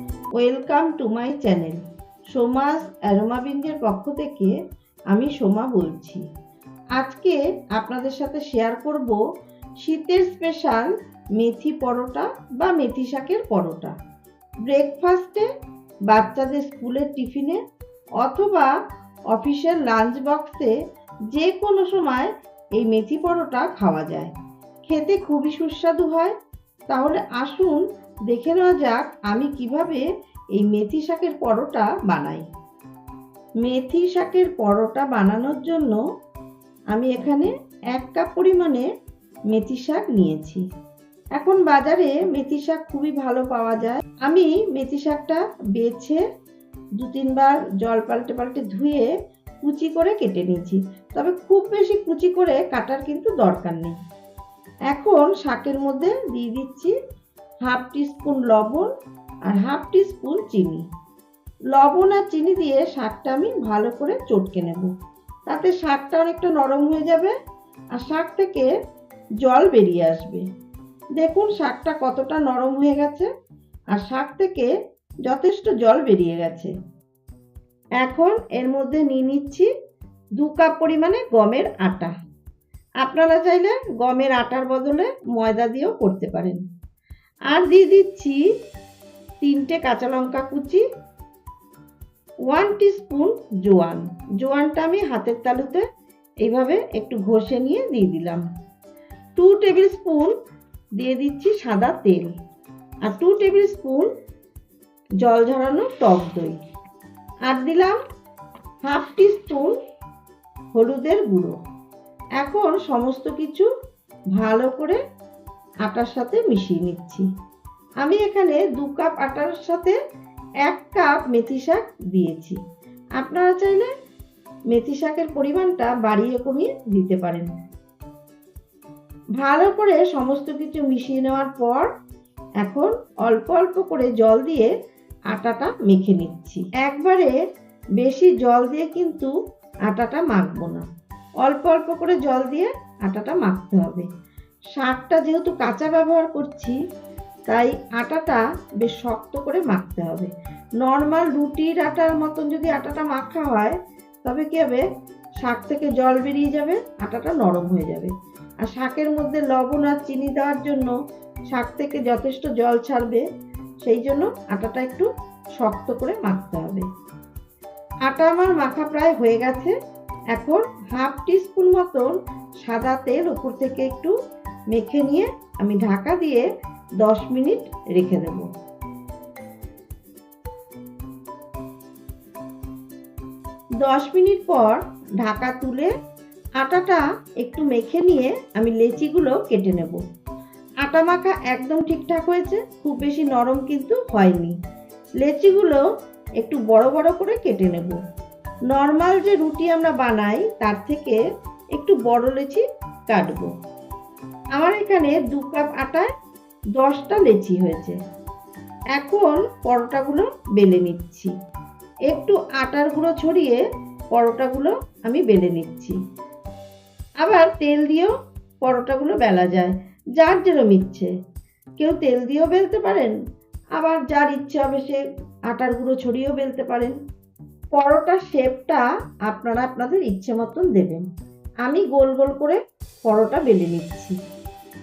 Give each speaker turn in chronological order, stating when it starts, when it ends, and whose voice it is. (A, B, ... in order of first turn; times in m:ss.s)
0:00.4-0:01.8 A
0:02.3-0:04.5 A
0:05.1-0:06.2 A
0:07.0-0:09.2 A
0:09.8-0:13.9 A
0:14.7-0:15.5 A
0:16.1-0:17.6 A
0:18.2-0:18.7 A
0:19.3-0:20.7 A
0:21.3-0:24.3 A
0:24.9-0:26.4 A
0:26.9-0:30.0 A
0:30.6-0:32.4 A
0:33.6-0:36.0 A
0:36.9-0:38.8 A
0:39.5-0:40.6 A
0:41.4-0:46.2 A
0:47.0-0:49.1 A
0:49.6-0:54.0 A
0:54.9-0:56.9 A
0:57.6-0:58.9 A
0:59.5-1:00.8 A
1:01.7-1:04.9 A
1:05.5-1:07.3 A
1:08.0-1:08.7 A
1:09.4-1:10.4 A
1:11.2-1:13.3 A
1:13.9-1:14.7 A
1:15.3-1:16.7 A
1:18.0-1:19.7 A
1:20.4-1:22.1 A
1:23.0-1:26.6 A
1:27.5-1:28.4 A
1:29.4-1:30.8 A
1:32.5-1:35.8 A
1:36.4-1:38.4 A
1:39.4-1:40.3 A
1:41.0-1:42.3 A
1:43.1-1:44.1 A
1:45.2-1:46.6 A
1:47.5-1:48.0 A
1:48.8-1:49.7 A
1:50.8-1:51.6 A
1:52.4-1:53.7 A
1:54.4-1:55.0 A
1:55.8-1:57.3 A
1:58.0-2:00.0 A
2:00.7-2:02.6 A
2:03.2-2:03.9 A
2:04.7-2:07.5 A
2:09.4-2:11.9 A
2:12.6-2:14.7 A
2:15.3-2:17.3 A
2:18.0-2:19.3 A
2:19.9-2:20.8 A
2:21.4-2:24.1 A
2:24.7-2:26.8 A
2:27.5-2:30.3 A
2:30.8-2:34.8 A
2:35.4-2:38.1 A
2:38.6-2:40.9 A
2:41.5-2:43.2 A
2:43.8-2:45.1 A
2:45.6-2:46.8 A
2:48.1-2:49.7 A
2:50.3-2:54.1 A
2:54.7-2:56.4 A
2:57.0-2:58.5 A
3:03.8-3:05.9 A
3:06.6-3:10.0 A
3:10.8-3:14.5 A
3:15.2-3:15.8 A
3:16.4-3:18.0 A
3:18.7-3:21.2 A
3:21.8-3:23.5 A
3:24.6-3:26.1 A
3:26.8-3:28.0 A
3:28.9-3:31.3 A
3:32.1-3:33.6 A
3:34.1-3:36.0 A
3:37.2-3:38.1 A
3:38.6-3:41.1 A
3:41.8-3:43.2 A
3:43.8-3:47.0 A
3:47.8-3:51.0 A
3:51.6-3:54.2 A